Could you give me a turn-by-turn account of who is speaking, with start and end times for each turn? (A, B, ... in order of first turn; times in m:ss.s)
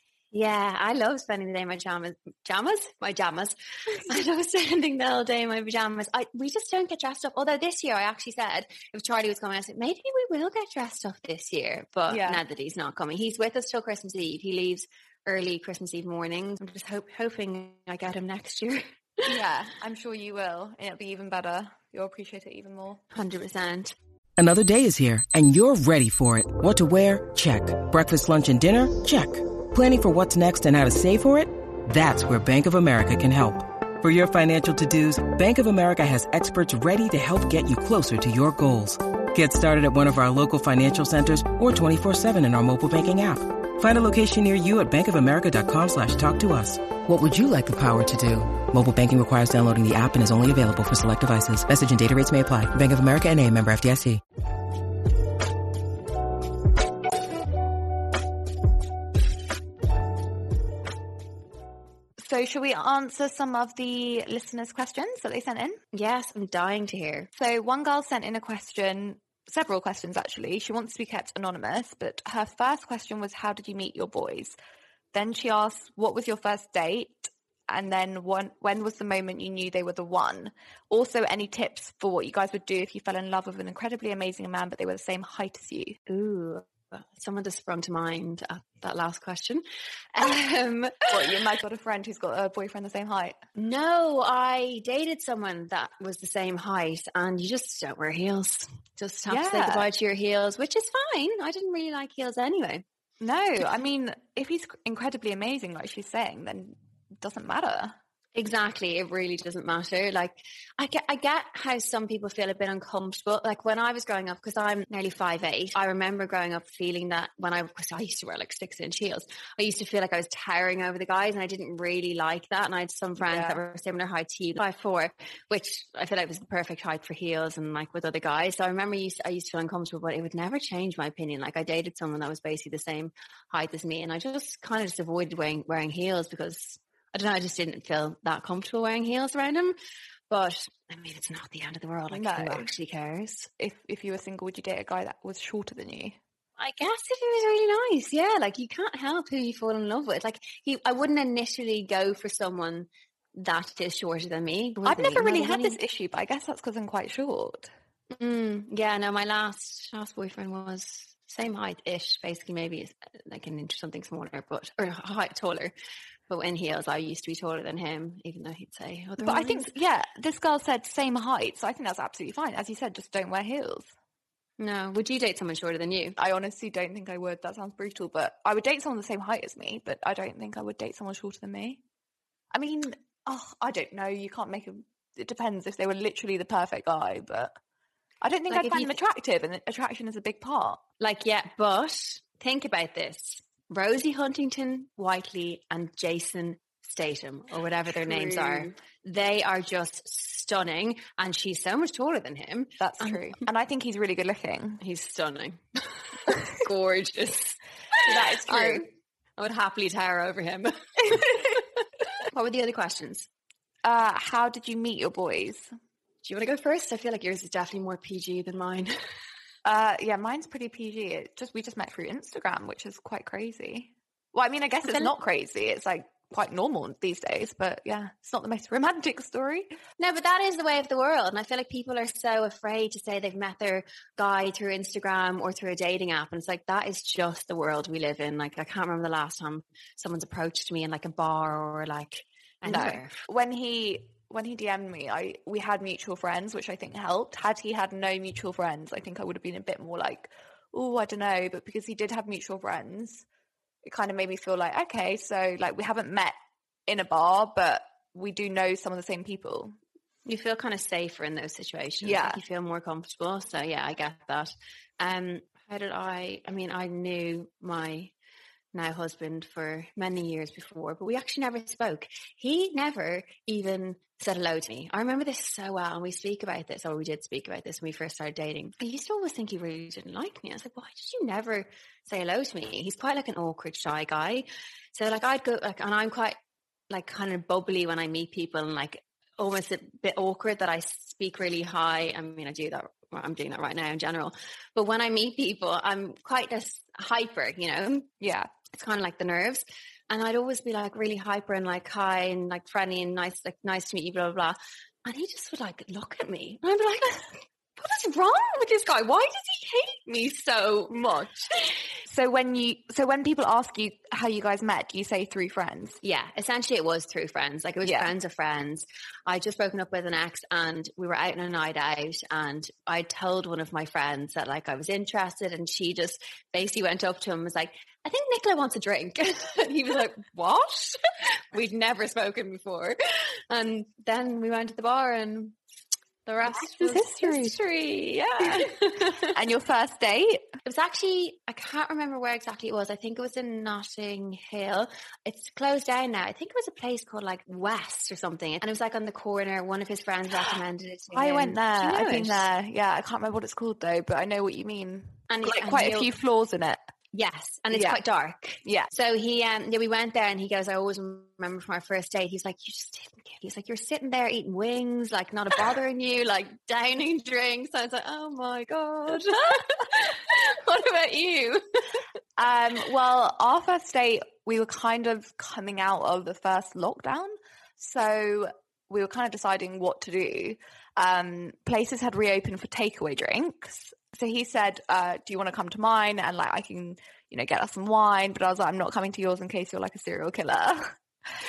0:00.3-0:19.3 A
0:12.1-0:12.4 B
0:19.2-0:23.0 B
0:23.1-0:23.9 A
0:24.4-0:54.2 C
1:02.2-1:05.8 B
1:05.9-1:07.3 A
1:07.3-1:14.5 B
1:15.1-1:26.0 B
1:26.1-1:29.6 A
1:30.1-1:31.3 A
1:31.1-1:33.4 B
1:33.6-1:42.8 A
1:39.3-1:39.9 B
1:43.2-1:48.0 B
1:48.3-2:19.8 A
2:03.2-2:03.6 B
2:20.3-2:23.5 A
2:22.1-2:22.7 B
2:23.6-2:26.2 B
2:26.6-2:35.8 A
2:34.8-2:37.7 B
2:38.1-2:45.7 A
2:46.3-2:49.7 A
2:49.2-2:53.9 B
2:54.6-2:56.2 A
2:56.2-3:01.8 B
3:02.5-3:07.6 B
3:08.2-3:10.8 B
3:08.5-3:09.0 A
3:11.0-3:23.4 A
3:18.0-3:18.7 B
3:22.8-3:24.8 B
3:24.8-3:33.3 A
3:28.1-3:28.8 B
3:33.8-3:35.7 B
3:36.2-3:38.9 A
3:39.6-3:49.7 B
3:44.8-3:45.1 A
3:50.0-4:03.2 A
4:02.6-4:13.2 B
4:13.8-4:16.4 B
4:16.9-4:19.7 B
4:20.2-4:28.1 A
4:22.0-4:22.4 B
4:28.7-4:46.4 A
4:46.9-4:58.1 A
4:58.2-4:58.5 B
4:58.7-5:11.0 A
5:10.9-5:11.5 B
5:12.0-5:16.0 B
5:16.0-5:31.0 A
5:17.8-5:18.1 B
5:31.5-5:35.6 A
5:36.2-5:39.3 A
5:36.5-5:37.6 B
5:38.4-5:38.7 B
5:39.3-5:40.5 B
5:40.6-5:52.5 A
5:51.1-5:56.8 B
5:55.3-5:56.1 A
5:57.1-6:11.6 A
5:57.7-5:58.0 B
5:58.6-5:58.9 B
6:12.4-6:31.0 B